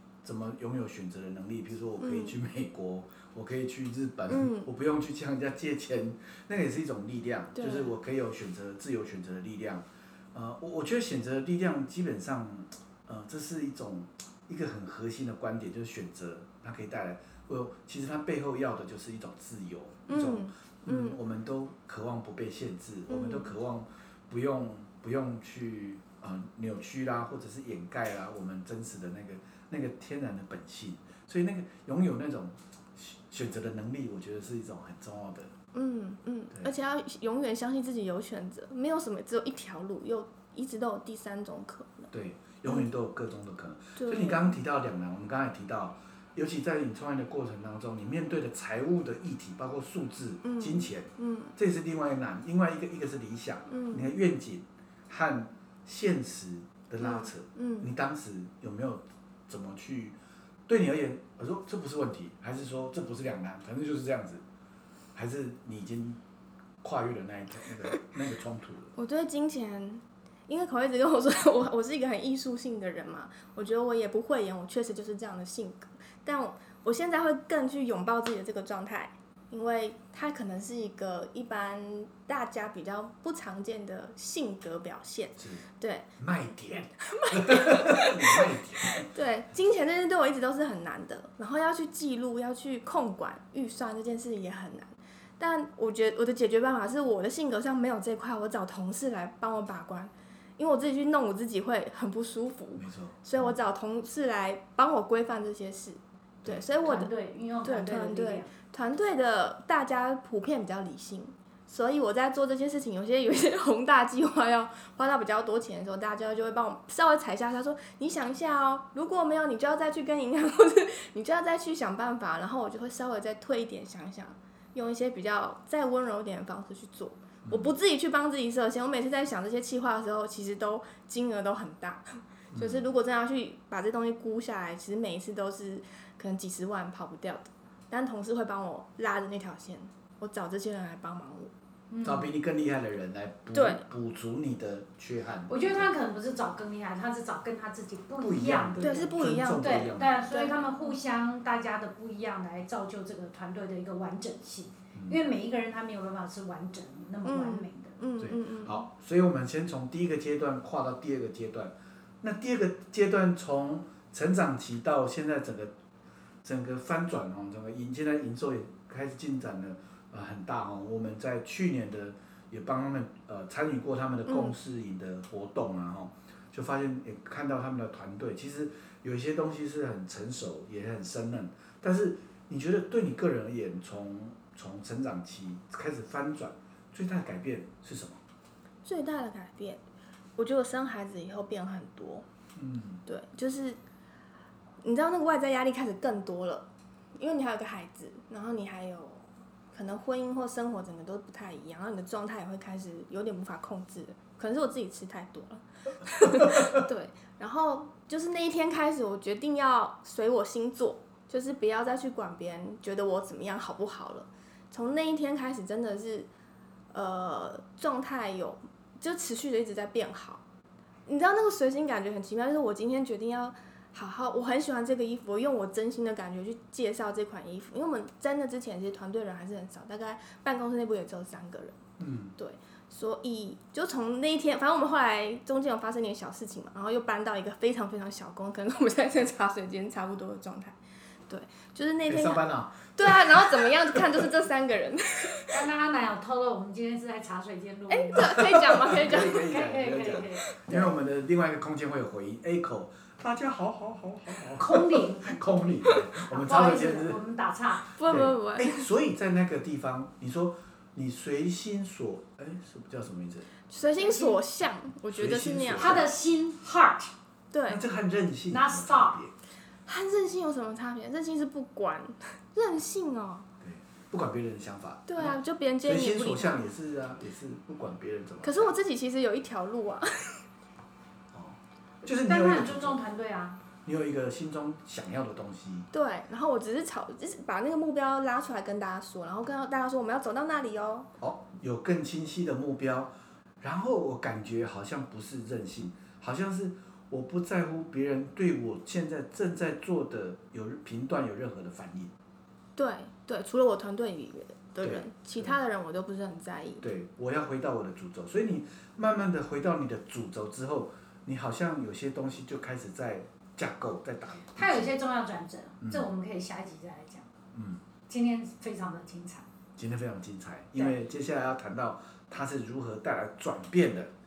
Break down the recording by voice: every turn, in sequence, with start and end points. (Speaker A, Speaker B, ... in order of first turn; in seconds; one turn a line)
Speaker A: 0.2-35.5
Speaker B: 2.0-2.4
Speaker B: 4.3-4.7
Speaker B: 7.6-7.9
Speaker B: 20.1-21.2
Speaker B: 23.1-23.5
Speaker B: 35.7-42.1
Speaker A: 42.1-60.2
Speaker B: 44.0-44.6
Speaker B: 50.4-51.5
Speaker B: 53.7-54.1
Speaker B: 57.0-57.9
Speaker A: 60.7-64.4
Speaker A: 65.2-66.2
Speaker A: 66.8-68.9
Speaker B: 69.0-86.1
Speaker A: 85.4-85.6
Speaker A: 86.2-89.1
Speaker B: 87.0-107.1
Speaker A: 102.8-103.6
Speaker C: 106.8-108.5
Speaker B: 107.6-141.5
Speaker A: 127.5-127.8
Speaker A: 132.5-132.9
Speaker C: 141.9-142.3
Speaker A: 142.0-145.9
Speaker B: 143.5-143.9
Speaker C: 145.5-158.0
Speaker A: 148.2-150.3
Speaker B: 148.8-150.9
Speaker A: 154.9-155.2
Speaker B: 157.2-158.9
Speaker A: 158.2-165.7
Speaker A: 166.4-188.2
Speaker B: 174.3-174.5
Speaker B: 188.8-189.8
Speaker B: 190.4-192.3
Speaker A: 192.6-193.0
Speaker B: 193.1-193.8
Speaker B: 194.8-216.3
Speaker A: 206.4-206.7
Speaker B: 216.9-220.4
Speaker B: 221.1-231.8
Speaker A: 232.0-232.3
Speaker B: 232.4-240.8
Speaker B: 241.3-245.6
Speaker A: 242.1-244.0
Speaker C: 245.5-248.3
Speaker B: 247.9-249.5
Speaker A: 248.2-257.2
Speaker C: 249.4-250.4
Speaker B: 250.3-250.9
Speaker C: 254.5-258.0
Speaker B: 257.9-258.9
Speaker A: 258.1-263.5
Speaker B: 263.7-266.0
Speaker C: 264.0-264.4
Speaker A: 265.1-266.1
Speaker C: 265.8-267.1
Speaker B: 267.5-267.8
Speaker A: 267.7-269.3
Speaker C: 268.5-269.2
Speaker B: 269.9-273.5
Speaker A: 273.6-278.7
Speaker B: 275.1-276.7
Speaker B: 278.4-280.4
Speaker A: 281.3-283.0
Speaker C: 282.2-283.6
Speaker A: 283.9-285.9
Speaker B: 285.9-291.1
Speaker A: 291.2-302.1
Speaker B: 302.8-306.9
Speaker A: 304.8-305.6
Speaker A: 306.8-314.9
Speaker C: 314.6-317.3
Speaker A: 317.5-317.8
Speaker C: 318.1-319.4
Speaker A: 319.8-324.1